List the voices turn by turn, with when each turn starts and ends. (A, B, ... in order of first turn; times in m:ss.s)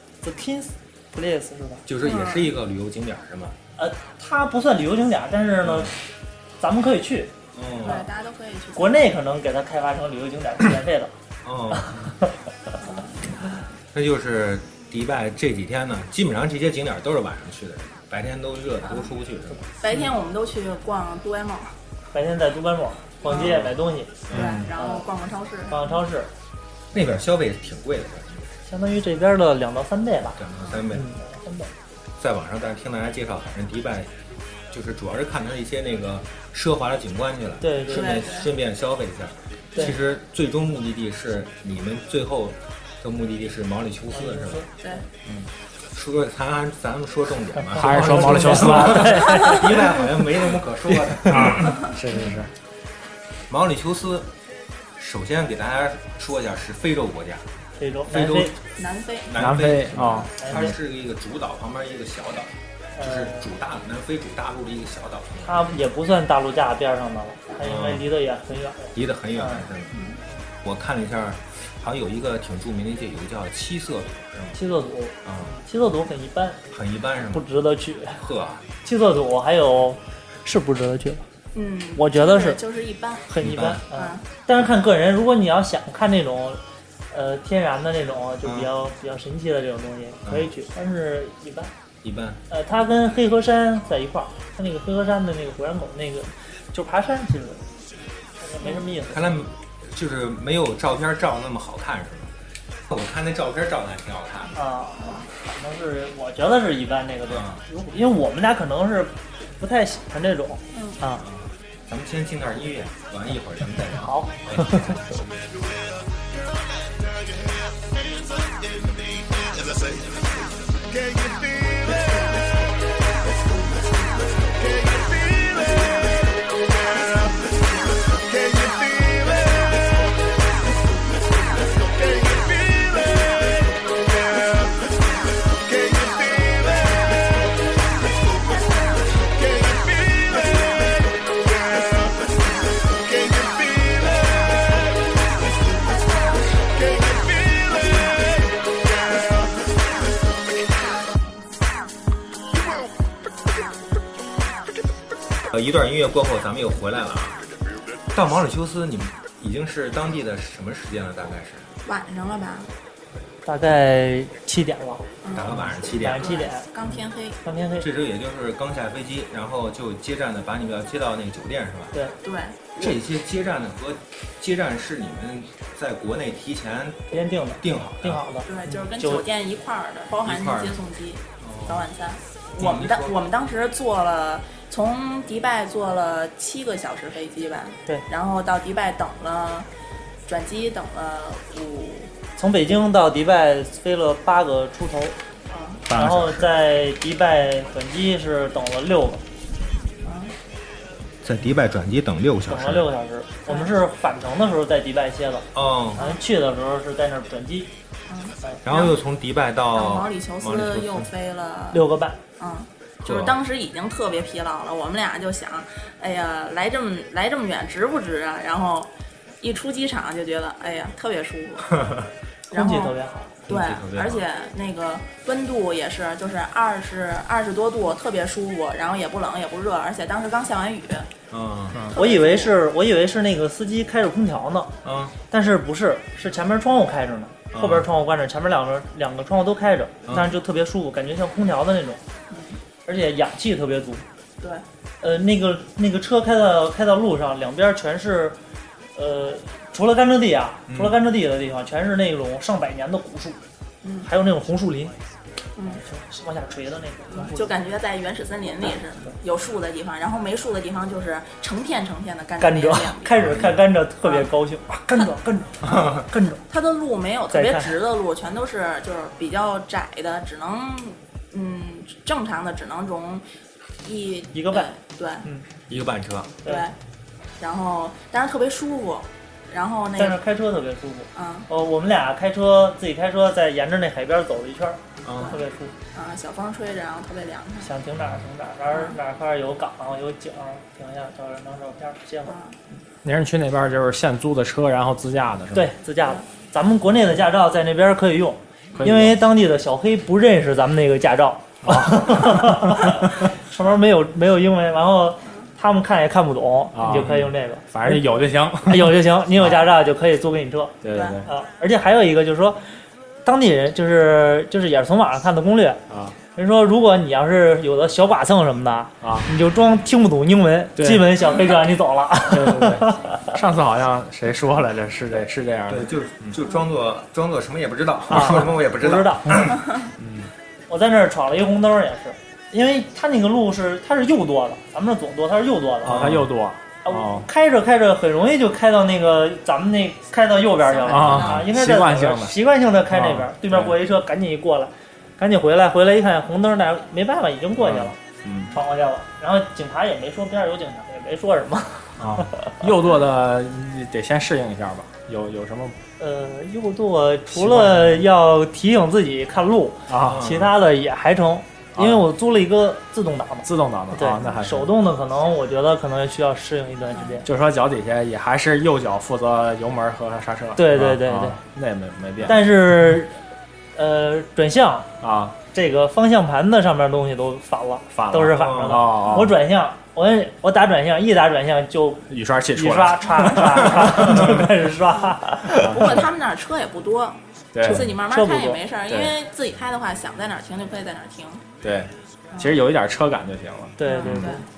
0:00.2-0:01.9 A
0:01.9-0:03.6 B
0:02.0-0:02.5 C
0:03.8-0:06.0 A
0:06.6-0:07.3 A
0:07.6-0:08.1 B
0:07.8-0:09.1 C
0:08.8-0:11.1 A
0:11.4-0:12.0 B
0:12.8-0:13.2 C
0:13.9-0:19.7 B
0:19.8-0:21.8 C
0:22.1-0:25.1 A
0:23.4-0:23.7 D
0:24.3-0:24.6 B
0:24.3-0:26.0 C
0:24.4-0:24.7 D
0:25.7-0:26.3 A
0:26.9-0:28.5 B
0:28.7-0:30.4 A
0:30.4-0:31.1 B
0:30.9-0:31.7 A
0:32.2-0:34.1 B
0:34.7-0:44.6 B
0:37.6-0:38.2 A
0:37.9-0:38.5 C
0:44.1-0:45.0 A
0:45.9-0:52.2 B
0:47.7-0:49.6 D
0:47.9-0:49.9 A
0:51.2-0:52.5 D
0:53.5-0:54.3 B
0:55.0-0:57.4 B
0:57.8-0:58.5 A
0:58.1-0:58.6 B
0:58.8-0:59.4 C
0:59.2-1:05.8 B
0:59.4-1:00.6 D
1:00.0-1:00.8 A
1:03.0-1:03.5 A
1:05.4-1:09.7 A
1:07.6-1:08.1 B
1:09.0-1:10.0 B
1:10.6-1:14.6 B
1:14.6-1:16.6 A
1:15.2-1:15.6 B
1:16.7-1:17.5 B
1:17.3-1:18.2 A
1:18.2-1:18.6 B
1:18.8-1:21.2 A
1:21.6-1:23.3 C
1:22.0-1:22.6 A
1:23.3-1:26.6 A
1:23.4-1:23.8 B
1:23.9-1:24.2 C
1:27.1-1:31.7 A
1:28.4-1:28.7 B
1:32.0-1:32.4 B
1:32.5-1:37.6 A
1:38.4-1:39.4 A
1:39.1-1:42.3 B
1:42.9-1:44.6 B
1:44.6-1:51.2 A
1:47.3-1:47.6 B
1:50.7-1:51.0 C
1:51.2-1:55.3 B
1:54.0-1:55.0 A
2:35.5-2:37.4 B
2:38.1-2:41.7 B
2:41.8-2:42.7 C
2:43.5-2:47.9 A
2:45.2-2:47.4 C
2:45.3-2:46.4 B
2:47.8-2:52.0 B
2:52.2-2:53.0 C
2:52.8-2:58.3 B
2:57.1-2:59.2 A
2:58.5-3:09.7 C
3:00.2-3:00.8 B
3:01.4-3:01.9 B
3:02.6-3:03.2 B
3:10.3-3:12.1 C
3:12.4-3:15.2 A
3:15.5-3:15.9 C
3:15.9-3:16.6 B
3:15.9-3:19.2 A
3:20.0-3:20.4 C
3:21.2-3:22.9 B
3:22.5-3:27.7 A
3:23.5-3:23.7 C
3:25.5-3:26.0 B
3:26.0-3:26.2 C
3:28.1-3:29.0 C
3:28.6-3:31.1 B
3:29.7-3:31.9 C
3:31.7-3:32.2 A
3:32.4-3:38.9 C
3:33.0-3:33.4 B
3:39.4-3:41.8 C
3:41.7-3:42.1 B
3:42.5-3:43.0 C
3:42.5-3:43.4 A
3:43.5-3:51.1 C
3:43.5-3:44.2 B
3:51.3-3:51.9 B
3:51.9-3:52.5 C
3:52.0-3:54.8 A
3:54.8-3:55.2 B
3:55.3-4:02.0 A
3:57.5-3:57.9 B
4:00.1-4:00.3 B
4:02.3-4:02.6 C
4:02.9-4:04.0 A
4:05.0-4:08.4 A
4:09.0-4:13.4 A
4:10.7-4:11.0 B
4:13.8-4:14.1 C
4:14.0-4:14.9 A
4:15.6-4:15.8 C
4:15.8-4:17.6 A
4:17.1-4:23.4 C
4:22.4-4:26.4 A
4:23.2-4:23.6 B
4:26.5-4:33.2 C
4:27.3-4:27.7 A
4:33.8-4:35.2 C
4:34.3-4:34.7 A
4:35.7-4:36.4 B
4:36.5-4:36.8 C
4:37.4-4:40.2 C
4:40.0-4:45.7 A
4:41.2-4:41.5 C
4:45.0-4:45.4 B
4:45.9-4:47.7 C
4:47.6-4:52.4 A
4:48.7-4:49.0 C
4:52.3-4:52.6 C
4:53.0-4:55.7 D
4:55.5-5:08.1 A
4:58.8-4:59.2 D
5:01.6-5:02.9 D
5:06.7-5:09.7 D
5:08.6-5:12.6 A
5:10.8-5:11.3 D
5:10.9-5:11.3 C
5:13.2-5:15.8 A
5:15.9-5:16.2 D
5:16.3-5:23.3 A
5:19.0-5:19.3 D
5:20.8-5:21.1 D
5:22.3-5:26.4 D
5:25.7-5:29.7 B
5:28.1-5:29.5 A
5:30.0-5:30.3 D
5:30.7-5:36.1 A
5:35.8-5:36.3 B
5:35.8-5:37.3 D
5:36.8-5:48.0 A
5:40.6-5:41.5 C
5:40.9-5:42.4 D
5:42.9-5:43.8 D
5:47.6-5:48.6 D
5:48.5-5:52.6 A
5:52.0-5:55.8 D
5:56.0-6:07.3 A
5:57.3-5:58.1 D
5:59.9-6:00.3 D
6:00.0-6:00.5 B
6:01.8-6:02.1 D
6:03.5-6:04.7 D
6:07.2-6:12.4 D
6:10.6-6:11.4 A
6:12.2-6:13.2 A
6:13.8-6:14.9 A
6:15.0-6:15.4 D
6:15.5-6:25.8 A
6:18.0-6:19.4 D
6:18.3-6:19.0 B
6:22.1-6:24.5 D
6:25.6-6:26.0 D
6:25.6-6:31.4 C
6:27.6-6:27.8 D
6:27.6-6:28.6 A
6:31.6-6:34.4 D
6:32.3-6:32.6 C
6:33.8-6:34.4 A
6:33.9-6:34.5 C